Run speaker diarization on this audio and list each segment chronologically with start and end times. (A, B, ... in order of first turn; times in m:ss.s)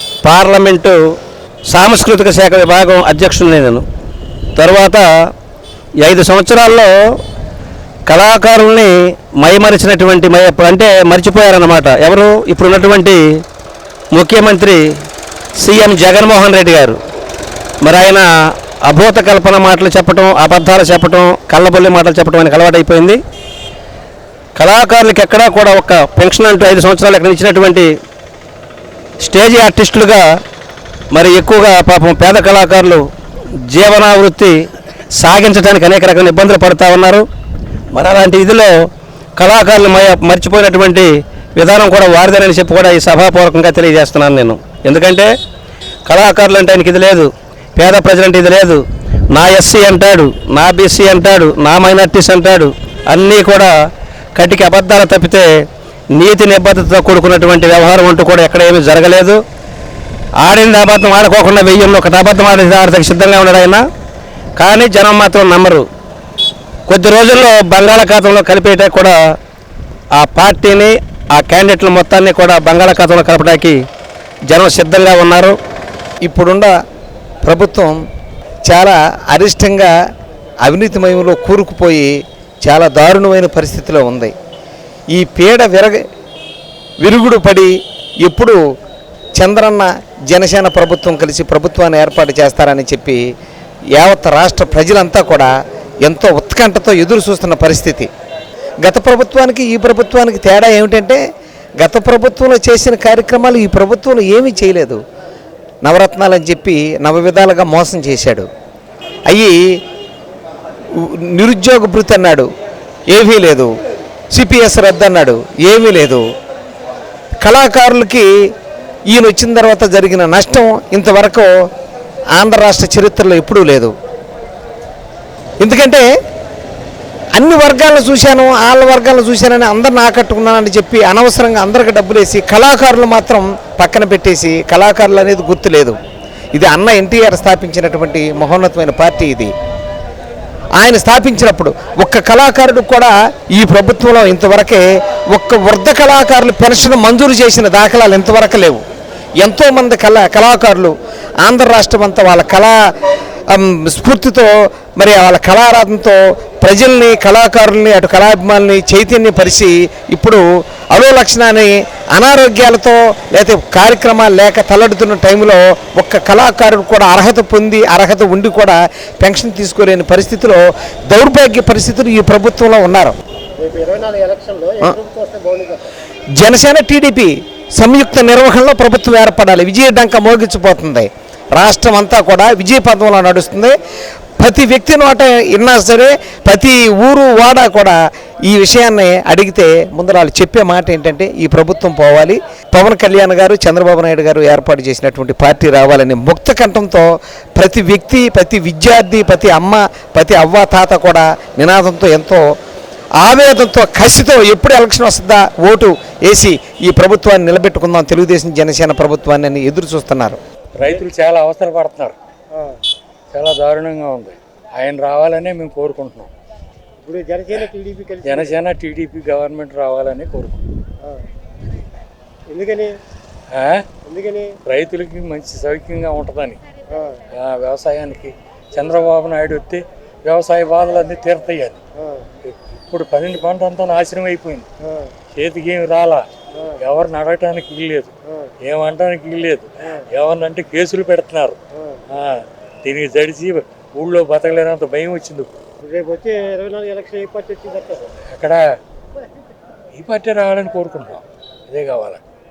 0:00.2-0:01.0 A
0:01.7-0:03.8 A
0:04.6-0:05.1 A
0:06.0-0:06.9 A
0:08.1-0:13.2 A
0:14.1-0:14.8 A
0:15.6-0:17.0 A
0:17.8-0:18.3 A
0:18.8-0:23.2 A
0:24.6-0:27.9 A
0:29.2-0:30.2 A
0:31.1-0:33.1 A
0:33.7-0:34.7 A
0:35.2-0:37.3 A
0:37.9-0:38.7 A
0:39.4-0:45.3 A
0:46.1-0:53.7 A
0:54.4-0:59.4 A
1:00.4-1:03.8 A
1:04.6-1:05.9 A
1:06.9-1:09.4 A
1:10.1-1:13.8 A
1:14.5-1:15.6 A
1:16.2-1:16.7 B
1:17.4-1:18.0 B
1:18.7-1:19.9 B
1:20.6-1:22.1 B
1:22.6-1:24.3 B
1:25.1-1:26.0 B
1:27.0-1:28.6 B
1:29.4-1:33.2 B
1:34.0-1:35.5 B
1:36.0-1:38.1 B
1:38.8-1:41.2 B
1:41.8-1:45.0 B
1:45.8-1:48.5 B
1:49.3-1:49.6 B
1:51.0-1:52.5 B
1:53.1-1:53.7 B
1:54.3-1:56.3 B
1:57.4-1:58.3 B
1:59.1-2:01.5 B
2:02.4-2:03.9 B
2:05.6-2:06.0 B
2:07.4-2:16.0 B
2:16.5-2:19.5 B
2:20.8-2:28.8 B
2:29.4-2:30.9 B
2:31.4-2:32.8 B
2:33.5-2:40.4 B
2:40.9-2:53.2 B
2:53.6-2:55.9 C
2:56.4-3:03.8 B
3:04.4-3:22.4 B
3:23.2-3:30.4 B
3:30.8-3:32.2 D
3:32.5-3:32.8 C
3:33.3-3:36.3 D
3:37.0-3:38.6 C
3:38.2-3:40.6 D
3:42.5-3:42.9 C
3:43.5-3:43.9 D
3:44.0-3:44.6 C
3:44.7-3:46.6 D
3:46.9-3:47.2 C
3:47.4-3:51.8 D
3:52.0-3:52.3 C
3:52.4-3:54.7 D
3:54.9-3:55.1 C
3:55.4-3:56.2 D
3:56.8-3:58.1 D
3:58.6-4:01.6 D
4:01.8-4:02.0 C
4:02.1-4:05.5 D
4:05.8-4:08.2 C
4:08.3-4:08.6 D
4:10.0-4:12.2 D